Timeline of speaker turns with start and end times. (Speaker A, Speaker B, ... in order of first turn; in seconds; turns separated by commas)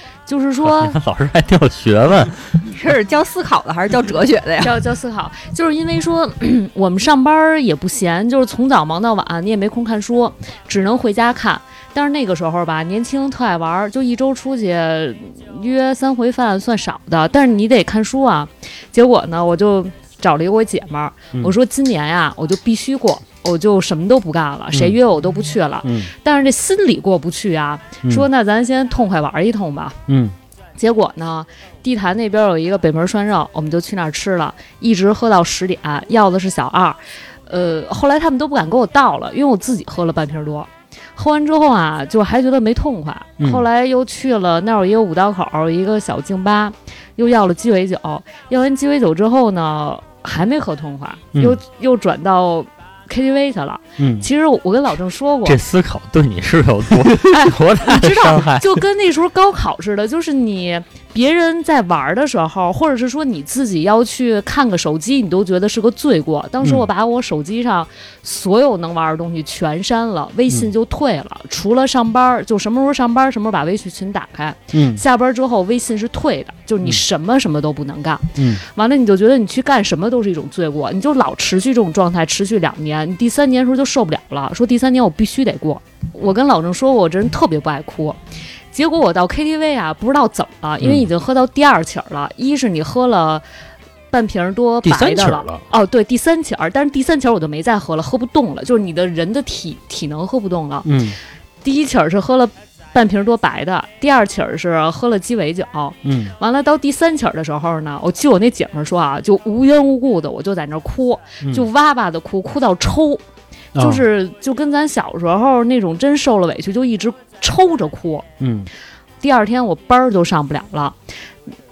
Speaker A: 0.2-0.9, Speaker B: 0.6-2.6, Speaker C: 2.7-4.8, Speaker A: 4.6-30.0, Speaker D: 25.8-26.1, Speaker D: 30.1-30.4, Speaker A: 30.8-55.6, Speaker D: 51.3-51.6, Speaker D: 54.0-54.3, Speaker B: 55.4-58.8, Speaker A: 57.3-88.2, Speaker D: 66.6-66.9, Speaker D: 74.7-75.0, Speaker D: 78.3-78.6, Speaker A: 88.7-93.4, Speaker D: 90.8-91.1, Speaker A: 94.1-100.9, Speaker D: 94.8-95.6, Speaker D: 100.8-101.2, Speaker A: 101.6-113.2, Speaker D: 106.0-106.3, Speaker D: 111.4-111.7, Speaker D: 113.8-114.0, Speaker A: 113.8-118.3, Speaker D: 118.4-118.7, Speaker A: 119.2-121.0